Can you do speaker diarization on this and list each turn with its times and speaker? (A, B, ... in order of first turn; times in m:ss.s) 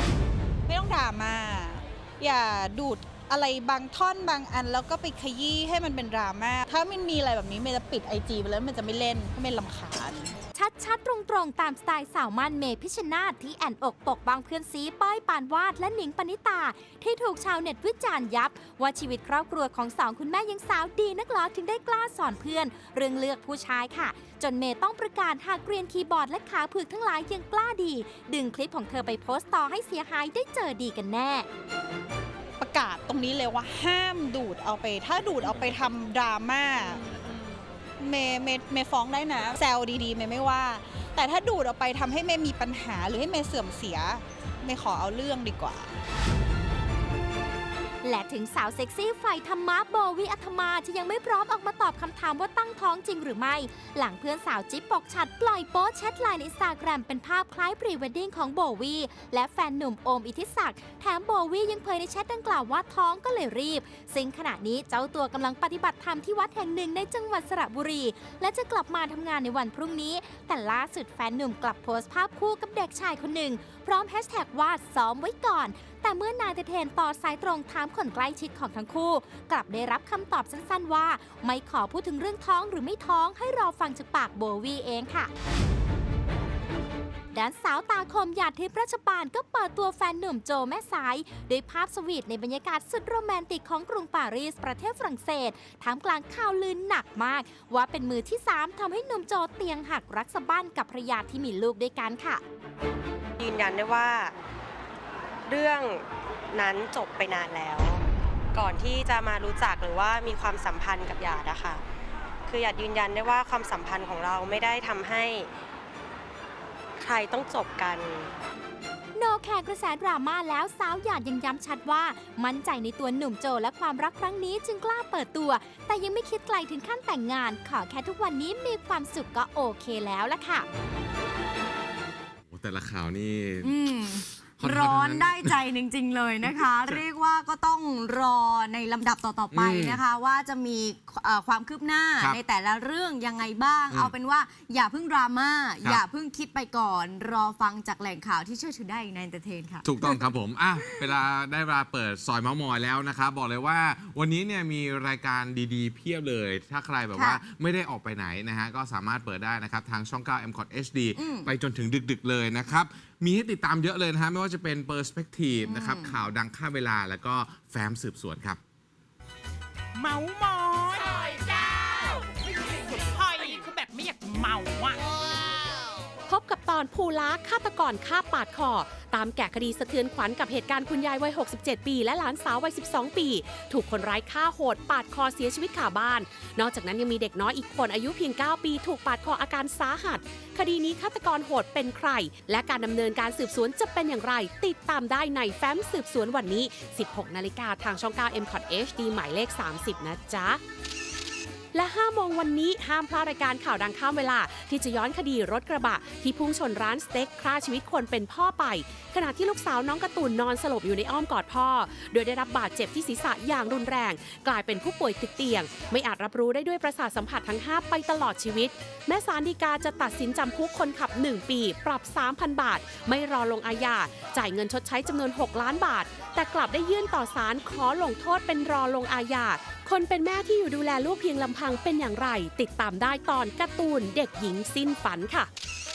0:00.7-0:10.3 A
0:10.6-0:31.5 B
0:32.6-0:37.3 A
0:38.0-0:45.9 A
0:48.0-1:25.3 B
1:27.3-1:42.4 B
1:43.4-1:44.3 C
1:45.5-1:48.0 C
1:48.5-1:51.8 C
1:52.5-1:55.5 C
1:57.0-1:58.3 C
1:59.2-2:10.7 B
2:12.5-2:13.7 D
2:13.6-2:30.2 E
2:14.6-2:15.5 D
2:19.5-2:20.0 D
2:29.8-2:48.6 D
2:30.8-2:31.2 E
2:37.1-2:37.4 E
2:41.2-2:41.5 E
2:45.6-2:46.2 E
2:50.0-2:55.0 F
2:56.3-3:20.6 G
3:21.7-3:55.5 G